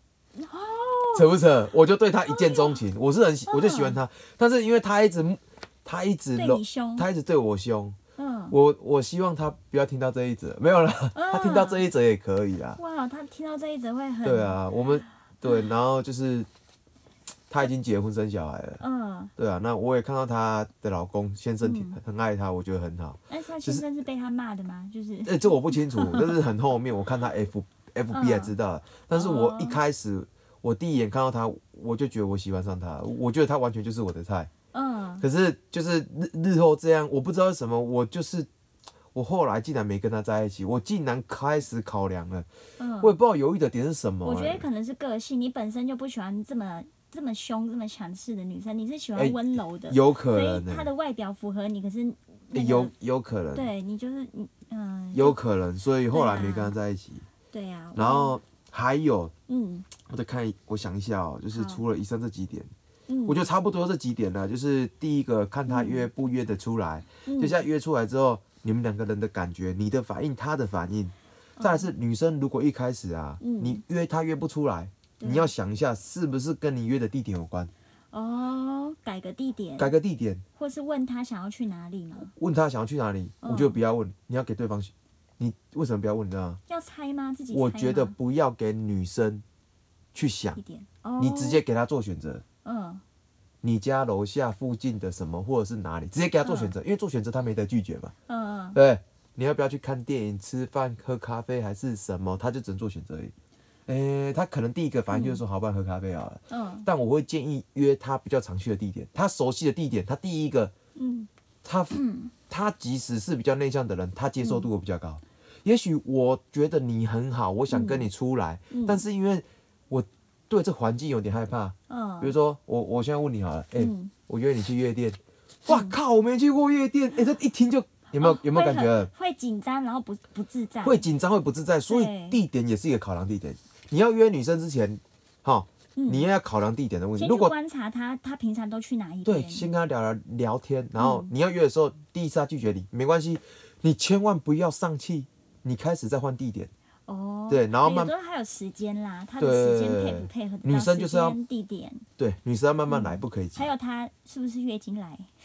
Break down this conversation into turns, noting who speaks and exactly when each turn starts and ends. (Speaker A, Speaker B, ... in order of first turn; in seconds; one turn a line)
Speaker A: 0.4-1.4
Speaker B: 1.1-8.0
Speaker A: 2.3-2.8
Speaker A: 3.5-4.0
Speaker A: 6.3-7.1
Speaker A: 8.2-8.6
Speaker B: 8.5-12.8
Speaker A: 11.1-11.8
Speaker A: 12.8-14.6
Speaker B: 14.2-16.5
Speaker B: 17.5-18.8
Speaker A: 18.8-19.3
Speaker B: 19.4-23.8
Speaker A: 21.6-22.0
Speaker A: 23.3-26.3
Speaker B: 25.2-34.5
Speaker A: 28.1-28.6
Speaker A: 29.1-29.8
Speaker A: 34.7-35.2
Speaker B: 35.2-38.5
Speaker B: 39.1-42.5
Speaker A: 42.8-43.1
Speaker B: 43.0-44.7
Speaker A: 44.2-52.9
Speaker B: 49.2-50.9
Speaker B: 52.5-53.7
Speaker A: 53.5-55.4
Speaker B: 55.1-57.3
Speaker A: 56.1-56.8
Speaker A: 57.5-58.4
Speaker B: 58.0-59.3
Speaker A: 59.5-59.9
Speaker B: 60.0-62.7
Speaker A: 61.5-61.8
Speaker A: 63.1-63.4
Speaker B: 63.3-77.7
Speaker A: 65.7-66.1
Speaker A: 67.3-67.6
Speaker A: 71.6-71.9
Speaker A: 73.4-73.8
Speaker A: 75.2-75.5
Speaker A: 78.1-79.9
Speaker B: 79.8-80.4
Speaker A: 80.6-82.3
Speaker B: 82.3-86.6
Speaker A: 83.4-83.8
Speaker A: 86.7-88.2
Speaker B: 87.5-89.4
Speaker B: 90.1-90.6
Speaker A: 90.6-91.6
Speaker B: 91.2-92.4
Speaker A: 92.6-93.0
Speaker B: 93.6-98.1
Speaker A: 96.4-96.7
Speaker A: 98.3-98.8
Speaker B: 98.8-103.3
Speaker B: 103.9-110.7
Speaker A: 105.1-105.4
Speaker A: 106.5-106.9
Speaker A: 111.0-111.3
Speaker B: 111.6-112.0
Speaker A: 111.9-112.3
Speaker B: 112.5-129.1
Speaker A: 114.4-114.7
Speaker A: 117.7-118.1
Speaker A: 118.7-119.0
Speaker A: 121.9-122.3
Speaker A: 123.8-124.1
Speaker A: 125.7-126.0
Speaker A: 128.2-131.1
Speaker B: 130.8-137.5
Speaker A: 131.9-132.4
Speaker A: 136.0-136.3
Speaker A: 137.2-139.7
Speaker B: 139.2-146.7
Speaker A: 141.0-141.3
Speaker A: 147.1-152.1
Speaker B: 147.5-148.1
Speaker B: 149.4-151.4
Speaker B: 152.2-153.7
Speaker A: 152.9-155.3